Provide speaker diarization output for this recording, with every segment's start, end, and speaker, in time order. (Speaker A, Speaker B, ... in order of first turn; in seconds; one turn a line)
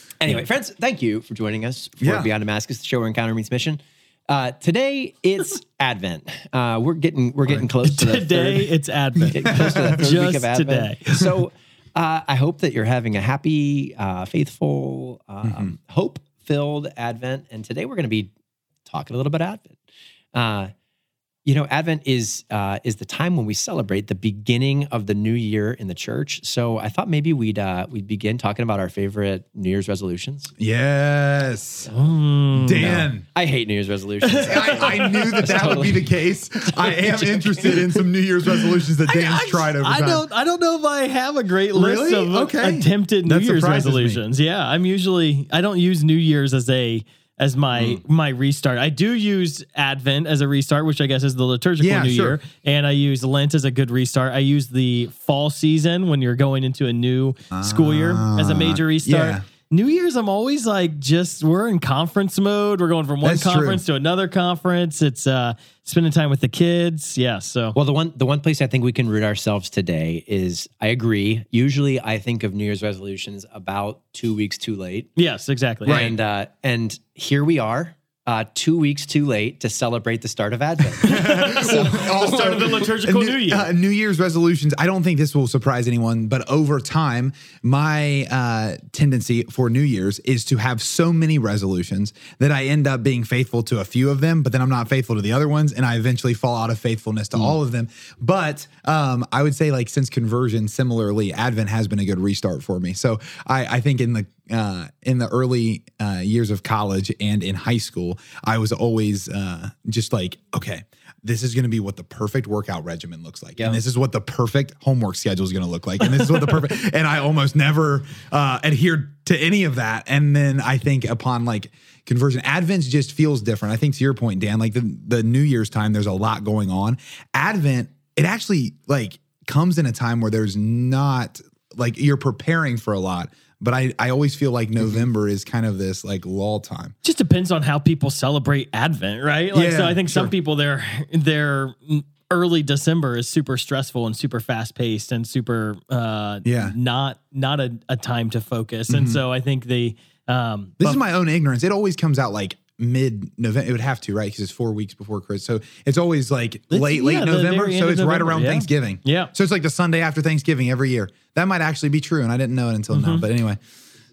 Speaker A: 0.2-8.7
Speaker B: 2.0-2.3
Speaker C: 7.8-11.4
Speaker A: 9.2-18.3
Speaker B: 9.5-9.9
Speaker B: 15.4-15.7
Speaker A: 18.9-19.8
Speaker A: 20.3-20.7
Speaker A: 21.4-30.5
Speaker B: 30.6-31.9
Speaker C: 31.9-33.0
Speaker B: 32.5-33.2
Speaker A: 32.8-36.1
Speaker C: 34.3-35.7
Speaker B: 34.4-40.2
Speaker A: 36.8-37.7
Speaker C: 38.5-67.7
Speaker B: 41.7-44.2
Speaker B: 51.8-52.4
Speaker B: 57.5-59.4
Speaker B: 63.2-63.8
Speaker A: 67.7-75.1
Speaker C: 75.2-76.0
Speaker B: 75.8-76.1
Speaker A: 75.8-82.6
Speaker C: 81.0-83.7
Speaker B: 81.0-136.9
Speaker C: 137.0-151.0
Speaker B: 139.5-140.3
Speaker B: 146.4-146.7
Speaker B: 148.9-149.2
Speaker B: 150.8-163.6
Speaker C: 156.7-159.3
Speaker C: 162.9-163.3